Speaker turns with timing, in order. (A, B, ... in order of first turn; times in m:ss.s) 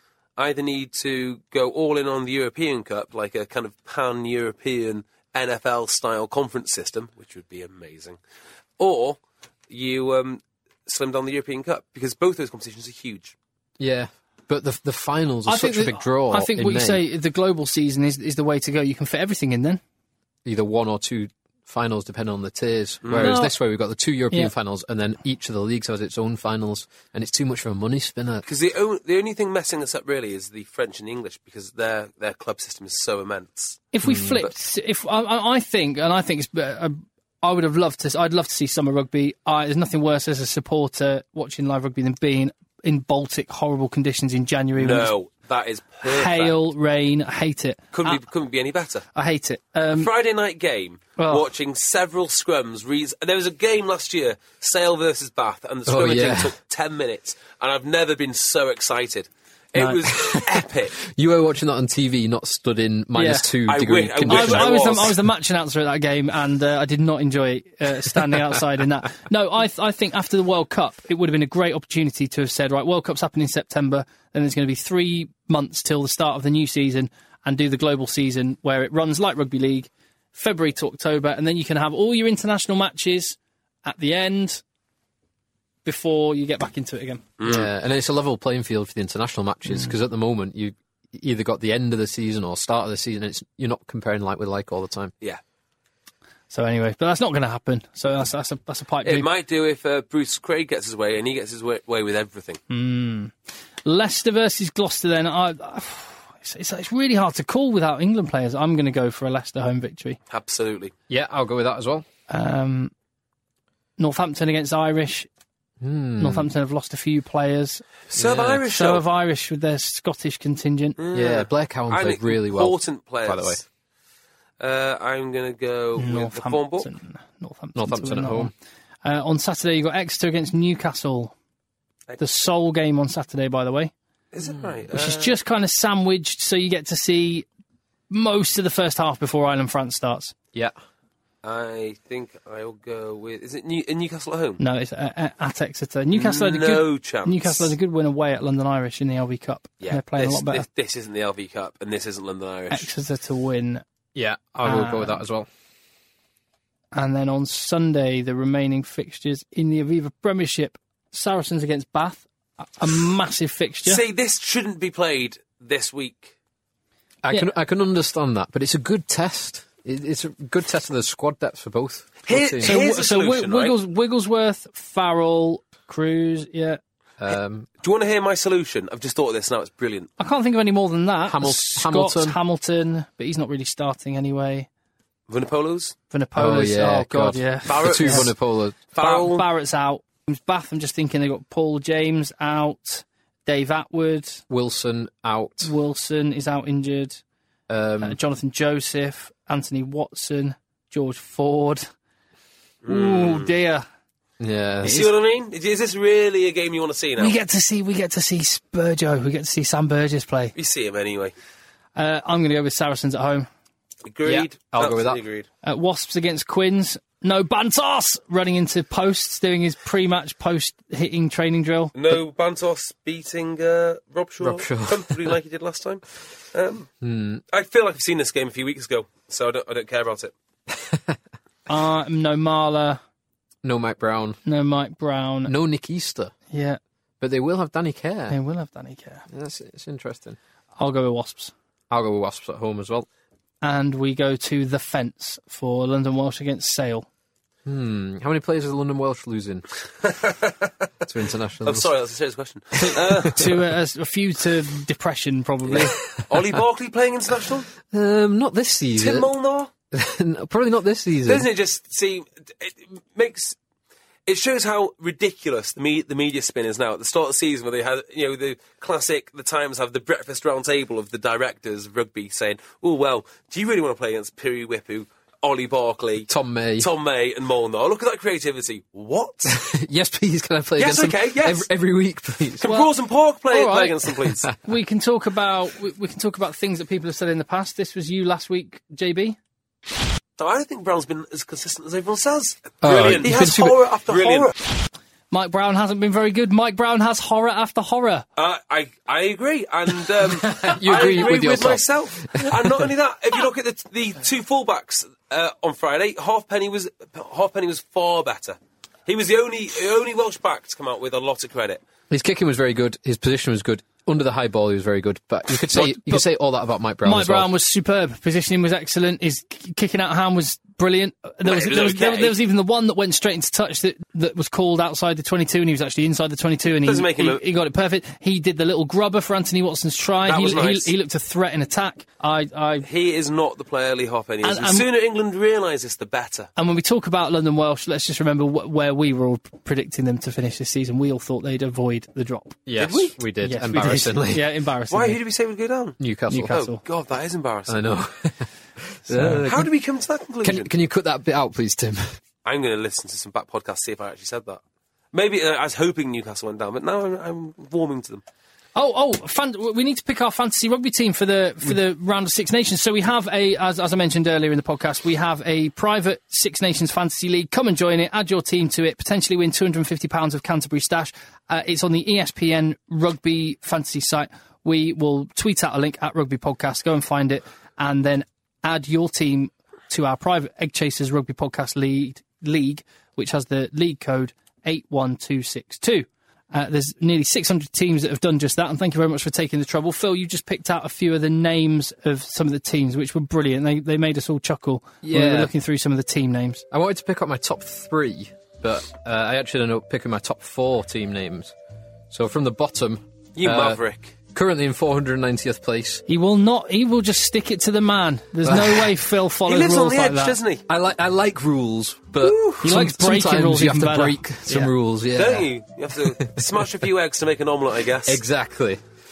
0:00.4-0:08.2 A
0:08.8-0:09.2 A
0:09.7-0:13.3 A
0:13.8-0:17.0 B
0:15.5-0:19.8 C
0:20.4-0:28.4 B
0:23.0-0:23.4 A
0:23.2-0:23.5 C
0:28.4-0:33.9 A
0:33.9-0:45.1 C
0:34.0-0:34.4 B
0:44.8-0:46.5 A
0:46.0-0:48.2 C
0:47.9-0:49.0 A
0:49.1-0:50.1 C
0:50.0-1:01.0 A
0:51.2-0:51.4 C
0:55.9-0:56.5 B
1:00.2-1:05.1 B
1:03.1-1:03.5 C
1:03.7-1:05.2 A
1:04.3-1:24.6 C
1:25.8-1:27.2 C
1:27.4-1:27.7 A
1:27.4-1:35.1 B
1:36.5-1:39.3 C
1:39.0-1:42.6 A
1:42.7-1:43.3 C
1:43.8-1:50.2 C
1:50.3-1:50.9 A
1:51.1-1:52.0 B
1:52.3-1:52.9 C
1:54.0-1:55.3 C
1:55.8-1:56.5 B
1:56.2-1:57.9 C
1:58.1-1:59.0 A
1:58.2-1:58.6 B
1:58.6-2:01.0 C
2:01.0-2:03.6 A
2:01.1-2:03.6 B
2:04.6-2:06.9 A
2:06.0-2:08.5 C
2:07.8-2:08.5 B
2:09.0-2:11.3 C
2:12.2-2:13.9 C
2:14.3-2:15.4 A
2:14.9-2:17.5 C
2:18.1-2:20.3 C
2:21.4-2:24.6 A
2:24.6-2:30.6 C
2:26.1-2:27.7 A
2:29.8-2:32.9 A
2:32.7-2:33.8 C
2:34.1-2:35.5 B
2:34.6-2:35.2 C
2:36.9-2:44.0 C
2:43.8-2:46.3 A
2:47.2-2:52.8 B
2:52.2-2:53.7 A
2:52.6-2:56.8 C
2:57.2-2:57.7 B
2:57.8-3:00.1 A
3:00.2-3:04.7 C
3:01.2-3:02.4 B
3:05.3-3:06.0 A
3:06.1-3:08.3 C
3:06.4-3:08.8 B
3:07.6-3:08.3 A
3:08.9-3:09.4 A
3:09.0-3:14.4 C
3:14.5-3:15.7 B
3:15.6-3:17.2 C
3:17.7-3:18.2 B
3:18.0-3:21.8 C
3:22.8-3:23.5 A
3:22.9-3:23.8 C
3:24.4-3:25.1 B
3:24.8-3:25.1 C
3:24.8-3:27.4 A
3:27.2-3:30.5 C
3:30.6-3:31.3 A
3:32.0-3:33.5 C
3:34.0-3:35.5 A
3:34.2-3:35.2 B
3:35.6-3:42.0 C
3:41.9-3:46.9 A
3:44.4-3:45.3 B
3:47.0-3:47.4 B
3:47.5-3:50.3 A
3:51.7-3:53.0 C
3:53.6-3:54.4 B
3:54.4-3:55.5 C
3:55.4-3:56.3 B
3:56.5-3:56.8 C
3:57.2-3:58.4 B
3:58.3-3:59.2 C
3:59.3-4:00.4 B
4:00.8-4:01.5 C
4:01.9-4:03.1 B
4:03.6-4:07.0 C
4:07.6-4:09.6 B
4:10.0-4:10.7 A
4:11.0-4:11.9 B
4:11.6-4:13.5 A
4:12.8-4:16.0 C
4:15.7-4:17.7 A
4:17.9-4:19.3 B
4:19.0-4:19.7 A
4:19.9-4:21.5 B
4:21.2-4:23.6 A
4:24.2-4:39.6 A
4:36.3-4:36.9 B
4:39.5-4:42.7 B
4:40.8-4:41.7 A
4:42.6-4:44.5 A
4:42.6-4:42.9 C
4:43.5-4:44.1 C
4:44.6-4:49.4 C
4:50.4-4:54.5 A
4:52.8-4:53.8 B
4:55.3-4:58.2 C
4:58.4-5:11.8 A
5:00.2-5:02.9 B
5:12.1-5:17.5 B
5:15.7-5:16.2 C
5:17.0-5:32.9 C
5:21.4-5:22.4 A
5:26.8-5:27.4 A
5:30.2-5:30.9 A
5:32.8-5:36.5 A
5:34.4-5:34.9 C
5:36.6-5:42.6 C
5:42.6-5:44.5 B
5:42.8-5:43.1 A
5:43.4-5:45.2 C
5:44.9-5:46.0 A
5:46.0-5:46.6 B
5:46.3-5:46.8 C
5:46.5-5:47.9 A
5:47.7-5:49.7 B
5:49.1-5:49.4 C
5:49.4-5:50.7 A
5:50.4-5:52.2 B
5:52.4-5:54.6 A
5:55.1-5:58.2 A
5:58.8-6:36.6 C
6:35.0-6:35.5 B
6:36.7-6:41.5 B
6:42.1-6:43.8 B
6:43.4-6:44.1 A
6:44.3-6:46.0 B
6:46.1-6:50.4 C
6:48.4-6:48.9 B
6:49.4-6:50.6 A
6:50.7-6:55.5 B
6:52.6-6:54.7 C
6:55.1-6:58.2 A
6:58.0-6:58.8 B